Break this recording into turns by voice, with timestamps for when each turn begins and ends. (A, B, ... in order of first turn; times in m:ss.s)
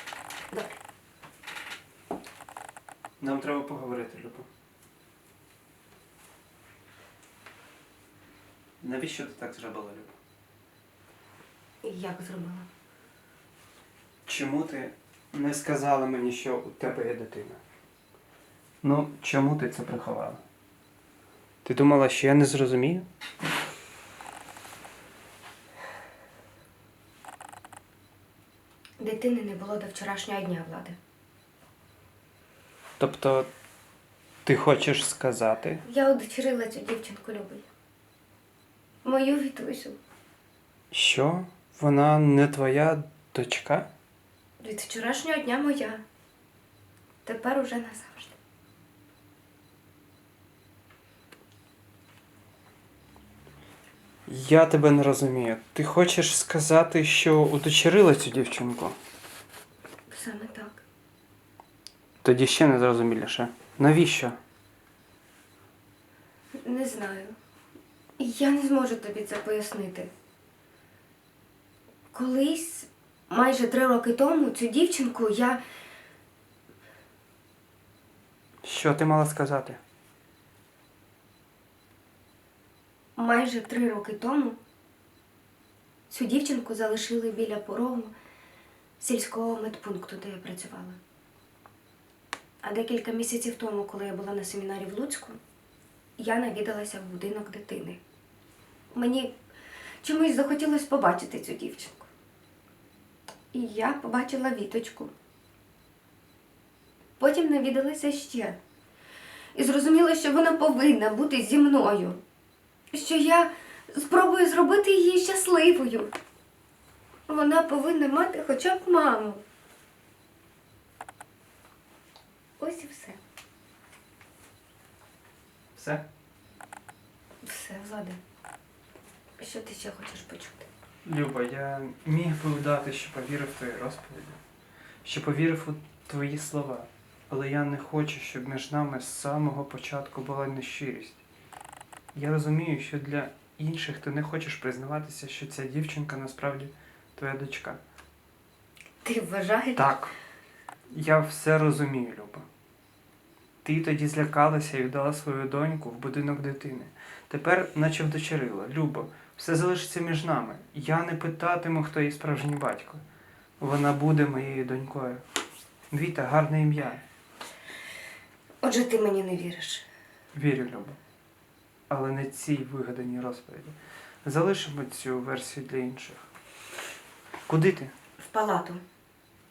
0:00.5-0:00.8 A
0:03.2-0:04.5 B
0:08.8-0:10.1 B
0:11.8-0:12.7 A
0:14.2-0:17.6 B
0:18.8-0:20.4 B
0:21.6-0:23.0 B
0:29.0-0:31.0 A
0:33.0-0:33.5 B
0:34.4-0:35.8 B
0:35.8-0:37.6 A
0:39.0-0:40.0 A
0:40.9-0:43.9 B
0:44.6-0:46.0 A
0:47.2-0:48.3 A
0:54.3-0:59.0 B
1:00.1-1:00.8 A
1:02.2-1:04.4 B
1:06.6-1:07.4 A
1:08.2-1:10.1 A
1:12.1-1:15.6 A
1:18.6-1:19.8 B
1:23.2-1:24.6 A
1:26.1-1:28.1 A
1:29.0-1:31.0 A
1:32.6-1:35.4 A
1:36.2-1:38.0 A
1:38.9-1:39.3 A
1:40.0-1:42.1 A
1:43.5-1:45.1 A
1:47.2-1:48.6 A
1:49.5-1:52.2 A
1:52.9-1:56.1 A
1:57.3-1:59.4 A
2:02.6-2:03.2 A
2:05.7-2:06.0 B
2:07.4-2:08.2 A
2:09.4-2:10.7 A
2:11.0-2:14.4 B
2:15.0-2:21.2 B
2:22.1-2:27.8 B
2:29.0-2:29.9 A
2:29.7-2:30.1 B
2:30.9-2:32.4 B
2:33.6-2:43.0 B
2:43.6-2:45.2 B
2:45.9-2:47.0 B
2:48.6-2:49.8 A
2:50.3-2:51.0 B
2:51.9-2:56.2 B
2:57.5-2:57.9 B
2:58.2-2:58.8 A